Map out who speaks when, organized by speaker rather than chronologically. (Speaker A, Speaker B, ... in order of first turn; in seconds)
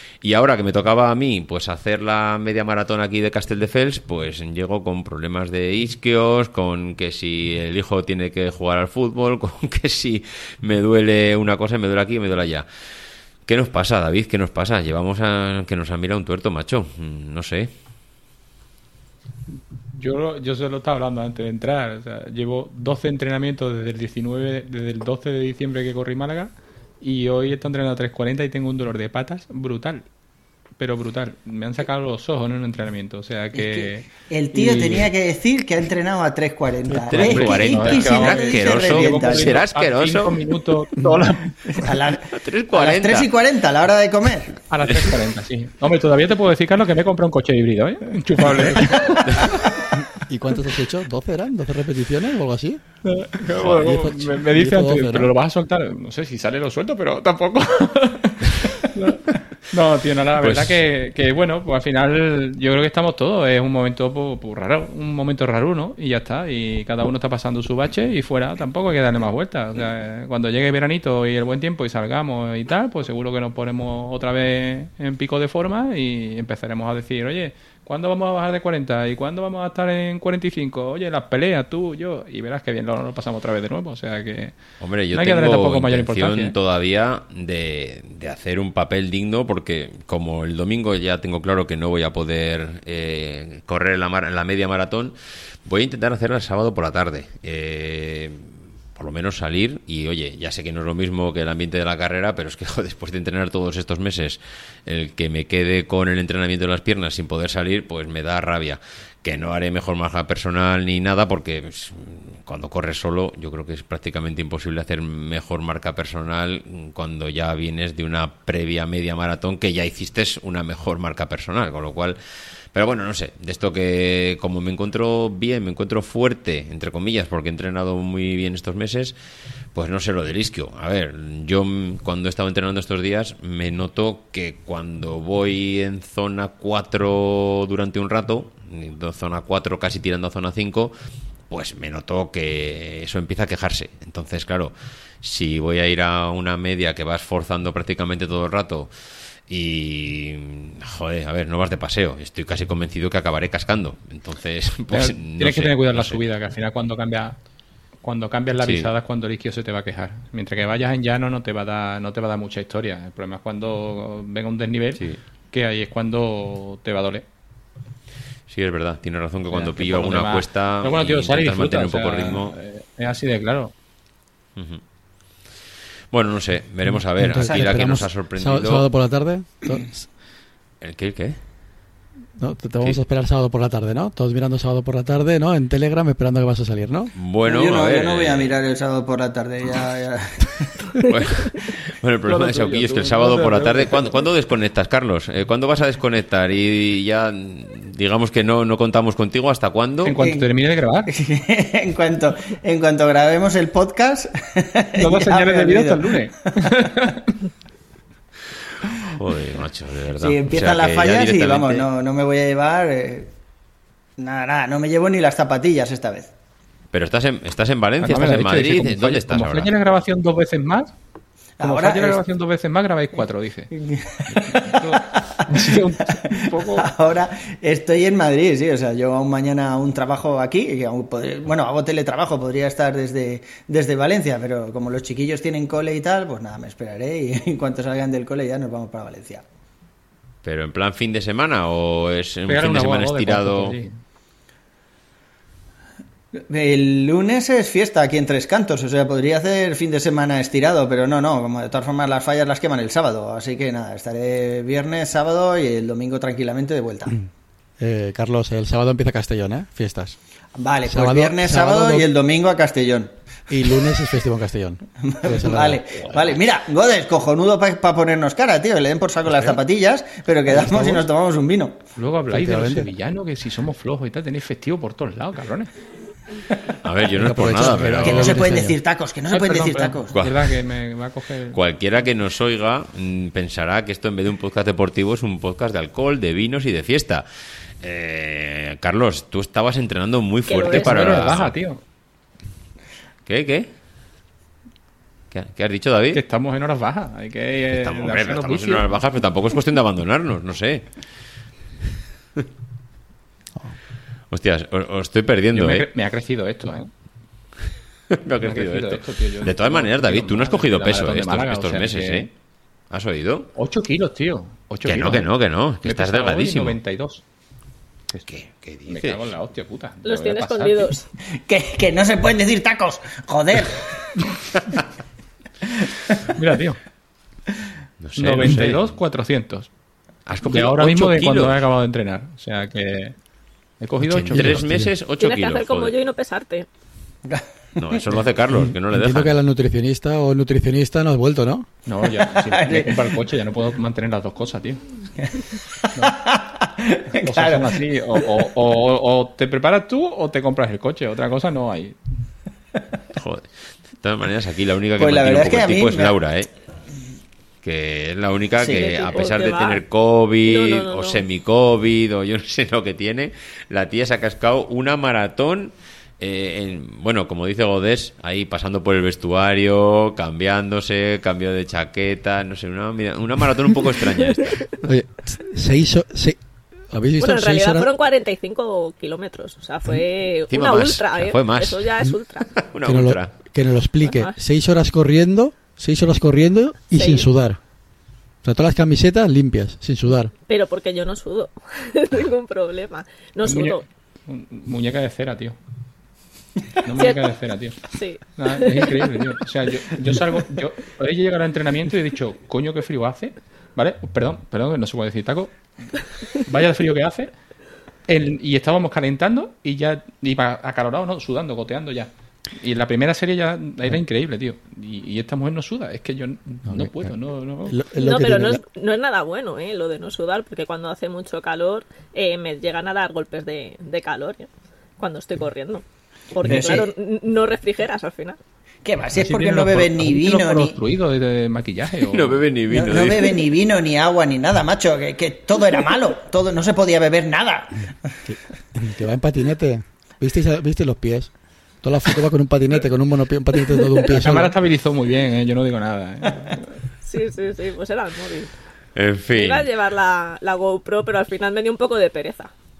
Speaker A: 0.2-12.7, 13.4-17.7, 36.9-40.4, 42.3-43.3, 60.4-60.8, 84.8-95.1, 95.7-122.2, 122.7-129.1, 129.7-140.9, 141.5-148.9, 149.5-156.2, 158.6-158.9, 168.5-172.5, 176.1-178.9, 180.8-181.4, 187.1-188.5, 191.0-200.2, 209.0-211.9, 216.9-219.7, 240.4-243.8, 276.8-278.4, 280.1-280.5, 281.5-287.2, 287.8-291.5, 293.2-293.7, 295.3-296.2, 297.7-300.8, 304.3-305.9, 308.1-312.3, 312.9-313.5, 314.9-316.8, 318.2-319.3, 328.0-328.9, 330.2-331.6, 334.1-335.9, 337.8-339.4, 353.1-356.5, 357.6-374.7, 380.5-381.9, 382.6-383.3, 432.0-433.4, 448.9-449.7
Speaker B: 19.9-30.0, 30.8-35.1, 37.1-41.9, 44.7-49.2, 53.0-84.5, 85.1-86.5, 154.9-157.4, 158.0-167.2, 169.5-173.7, 192.2-194.2, 200.0-201.1, 205.0-207.3, 218.0-220.9, 221.6-223.7, 224.3-226.9, 242.5-244.0, 271.9-275.7, 279.3-281.6, 290.7-291.8, 296.1-299.0, 305.5-306.9, 308.4-312.3, 313.5-315.3, 315.8-317.2, 318.9-320.9, 326.3-326.8, 328.1-329.7, 330.4-333.1, 333.8-334.6, 341.9-344.8, 347.2-352.0, 393.4-395.6, 396.8-407.3, 408.1-417.8, 429.1-432.4, 444.1-446.6
Speaker C: 33.5-39.6, 41.7-44.5, 177.4-178.0, 187.4-190.7, 200.2-200.5, 201.1-206.1, 210.2-213.3, 214.2-216.3, 221.6-222.2, 223.7-239.4, 246.3-257.2, 260.6-263.1, 265.1-271.8, 278.0-280.2, 321.4-323.9, 337.3-338.0, 342.1-343.0, 345.2-347.8, 355.0-356.1, 358.6-359.3, 426.4-426.9, 428.8-430.8, 432.7-437.8
Speaker D: 50.0-52.8, 53.6-55.3, 176.9-180.1, 182.4-187.1, 257.8-260.2, 260.9-262.1, 263.5-265.9, 270.5-271.1, 272.3-272.9, 277.1-278.8, 334.3-334.9, 338.5-341.7, 374.8-377.9, 382.8-387.6, 388.4-390.3, 416.6-417.1, 417.7-418.6, 438.3-444.5
Speaker E: 290.5-291.2, 320.0-321.1, 335.2-336.6, 358.6-359.8, 360.4-361.2, 377.2-382.5, 384.0-384.3, 386.9-387.3, 390.5-393.8, 397.0-397.2, 397.9-399.0, 418.0-424.5, 425.0-428.4, 447.0-448.5, 449.3-452.5